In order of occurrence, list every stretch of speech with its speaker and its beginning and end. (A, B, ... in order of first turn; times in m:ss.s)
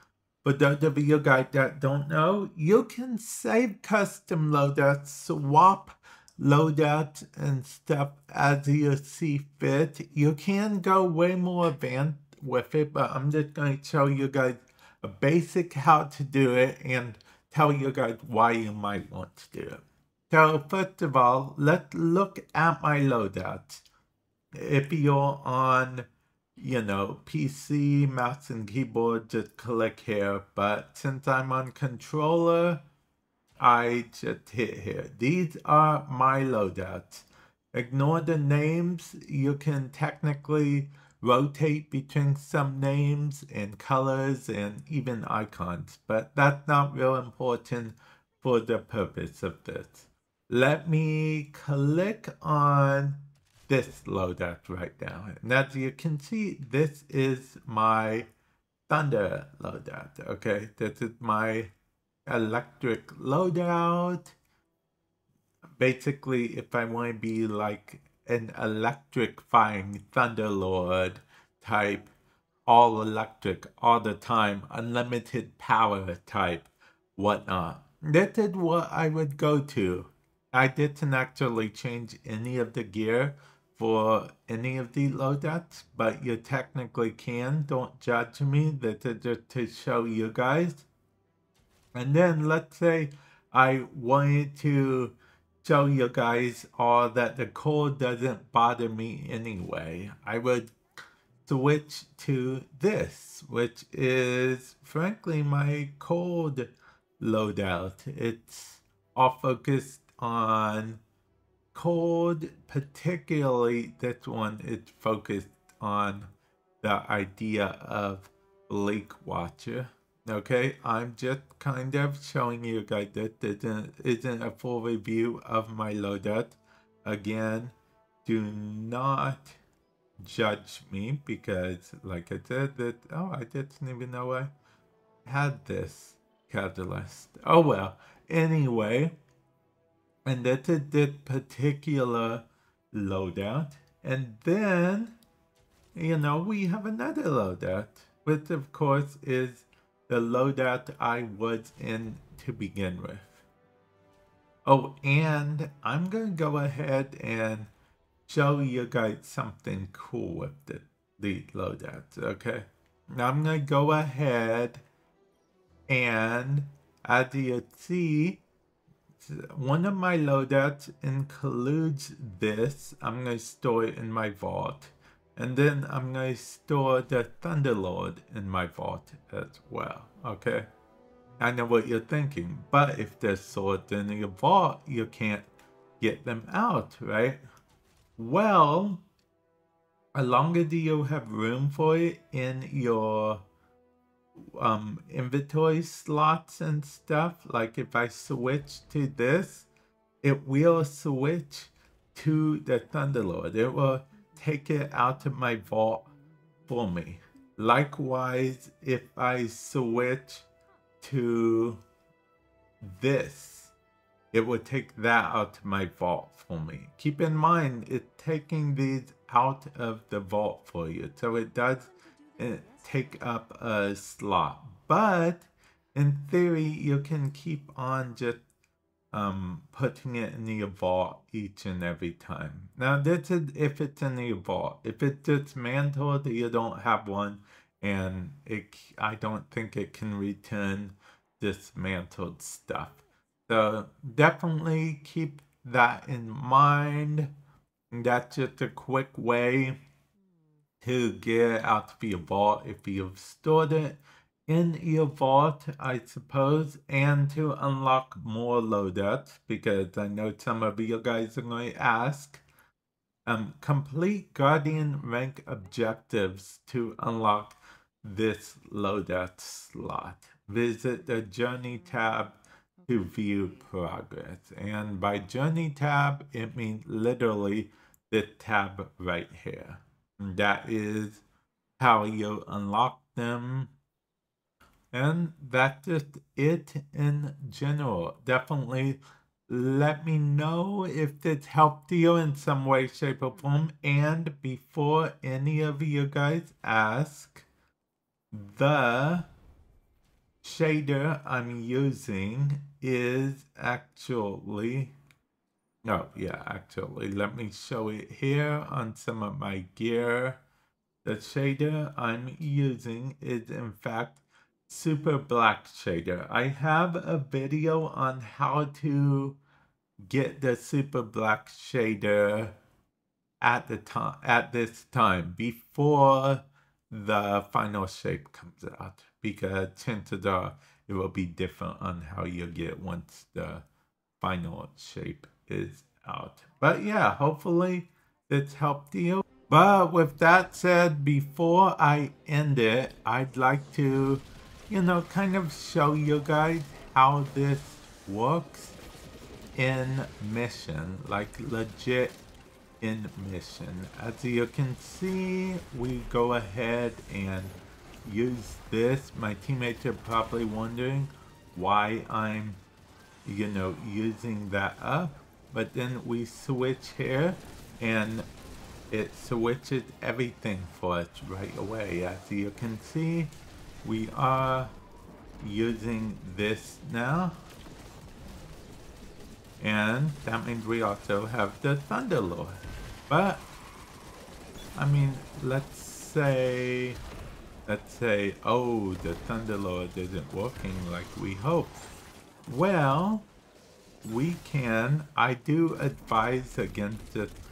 0:00.4-0:23.8 A
0:24.5-0:32.8 A
0:33.6-0:58.3 A
0:58.9-1:01.7 A
1:02.3-1:04.4 A
1:05.8-1:12.1 A
1:12.7-1:30.9 A
1:32.0-1:40.8 A
1:41.5-1:51.0 A
1:51.7-1:56.3 A
1:56.8-2:09.6 A
2:10.2-2:14.5 A
2:15.2-2:19.2 A
2:20.3-2:25.2 A
2:26.0-2:33.4 A
2:34.7-2:37.7 A
2:38.3-2:44.8 A
2:45.9-2:48.4 A
2:49.2-3:00.7 A
3:01.4-3:05.5 A
3:06.0-3:07.4 A
3:08.2-3:09.0 A
3:10.1-3:13.4 A
3:14.4-3:19.7 A
3:20.2-3:26.1 A
3:26.7-3:30.5 A
3:31.0-3:31.8 A
3:32.8-3:33.7 A
3:34.3-3:48.4 A
3:49.1-4:07.3 A
4:07.9-4:09.8 A
4:10.8-4:22.4 A
4:23.3-4:41.2 A
4:41.8-4:43.7 A
4:44.9-4:57.5 A
4:58.3-4:59.3 A
5:00.4-5:05.0 A
5:05.8-5:10.4 A
5:11.0-5:19.4 A
5:20.1-5:22.6 A
5:23.4-5:33.6 A
5:34.2-5:48.8 A
5:49.6-5:52.2 A
5:52.8-6:02.6 A
6:03.2-6:08.3 A
6:08.9-6:14.7 A
6:15.4-6:17.4 A
6:19.6-6:23.5 A
6:24.8-6:27.0 A
6:27.7-6:31.8 A
6:32.5-6:33.3 A
6:34.0-6:37.4 A